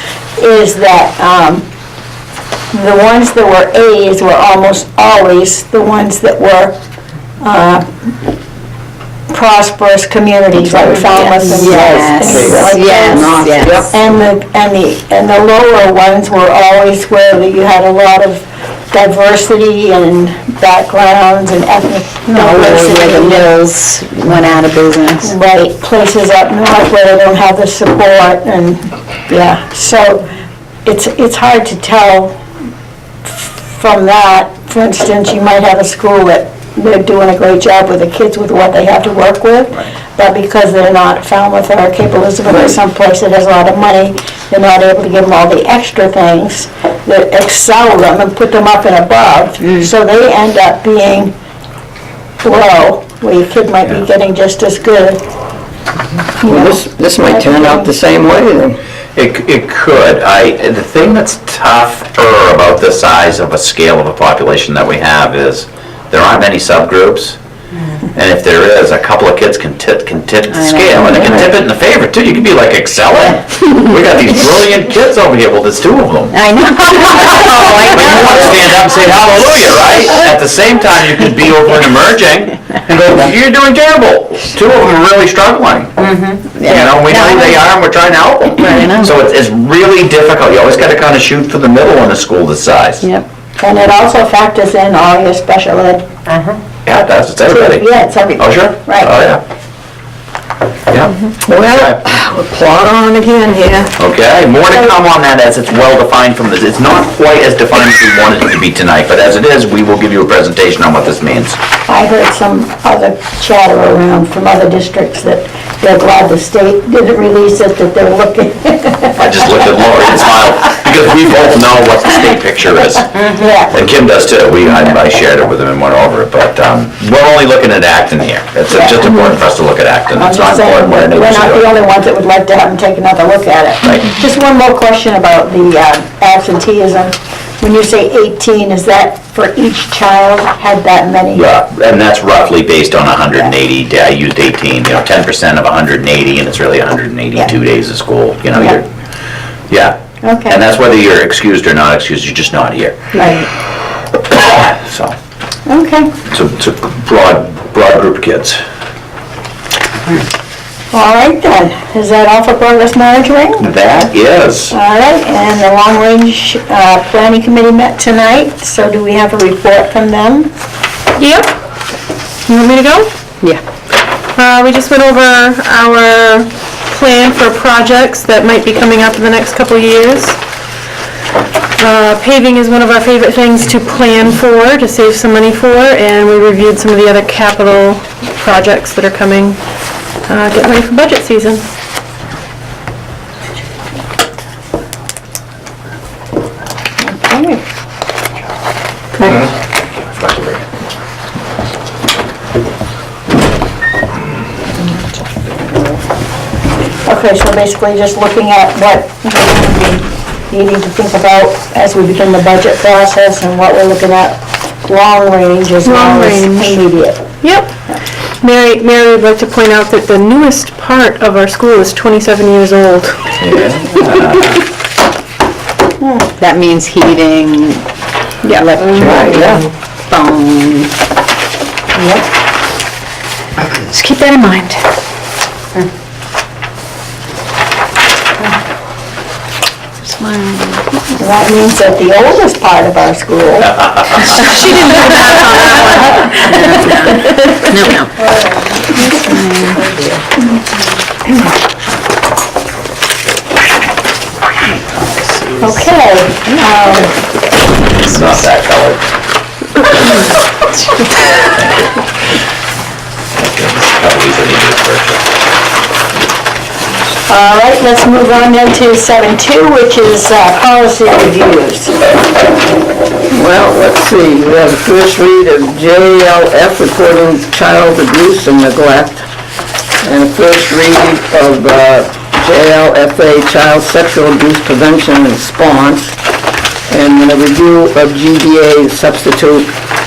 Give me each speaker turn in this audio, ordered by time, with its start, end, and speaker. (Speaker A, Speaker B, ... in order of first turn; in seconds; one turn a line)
Speaker A: 0.4-1.6
Speaker A: 2.7-6.8
Speaker A: 7.4-8.1
Speaker A: 9.3-23.6
Speaker B: 11.0-13.9
Speaker C: 11.8-12.6
Speaker C: 13.1-13.8
Speaker B: 22.3-25.3
Speaker A: 25.2-30.2
Speaker A: 30.8-32.4
Speaker A: 33.2-51.3
Speaker A: 52.4-55.2
Speaker A: 56.4-57.9
Speaker C: 56.4-58.8
Speaker D: 59.1-67.4
Speaker D: 68.1-76.4
Speaker B: 70.5-71.5
Speaker B: 76.3-78.7
Speaker D: 77.5-86.1
Speaker B: 86.0-87.6
Speaker D: 86.6-93.0
Speaker B: 88.6-89.1
Speaker A: 93.6-96.1
Speaker B: 96.3-96.5
Speaker D: 96.8-99.4
Speaker A: 97.5-99.2
Speaker D: 100.9-101.2
Speaker C: 101.5-103.9
Speaker D: 104.0-111.6
Speaker A: 111.9-119.5
Speaker D: 119.2-131.7
Speaker A: 123.3-123.7
Speaker A: 128.7-129.0
Speaker A: 130.1-141.5
Speaker D: 133.8-134.1
Speaker D: 141.3-148.9
Speaker D: 149.7-153.0
Speaker A: 150.2-150.6
Speaker A: 153.1-153.4
Speaker D: 154.3-155.1
Speaker A: 155.7-156.1
Speaker D: 156.3-158.6
Speaker A: 160.9-163.7
Speaker D: 163.6-164.7
Speaker A: 164.7-170.5
Speaker E: 171.2-171.5
Speaker E: 172.5-173.1
Speaker E: 174.3-180.4
Speaker E: 181.8-189.6
Speaker E: 190.3-191.6
Speaker A: 197.0-197.6
Speaker D: 199.2-199.5
Speaker D: 200.2-200.6
Speaker A: 207.0-217.2
Speaker E: 215.8-216.8
Speaker E: 217.4-217.7
Speaker E: 218.4-223.4
Speaker D: 223.4-224.6
Speaker B: 226.4-227.8
Speaker B: 228.4-230.9
Speaker C: 229.0-229.6
Speaker B: 233.7-234.7
Speaker B: 240.0-240.9
Speaker A: 241.1-244.5
Speaker E: 244.3-246.9
Speaker A: 245.1-247.5
Speaker B: 246.7-248.1
Speaker A: 248.3-249.0
Speaker B: 249.1-249.8
Speaker A: 255.6-257.1
Speaker D: 258.0-259.1
Speaker D: 263.3-265.2
Speaker A: 267.3-272.1
Speaker C: 273.3-279.2
Speaker C: 280.0-286.2
Speaker C: 286.9-289.7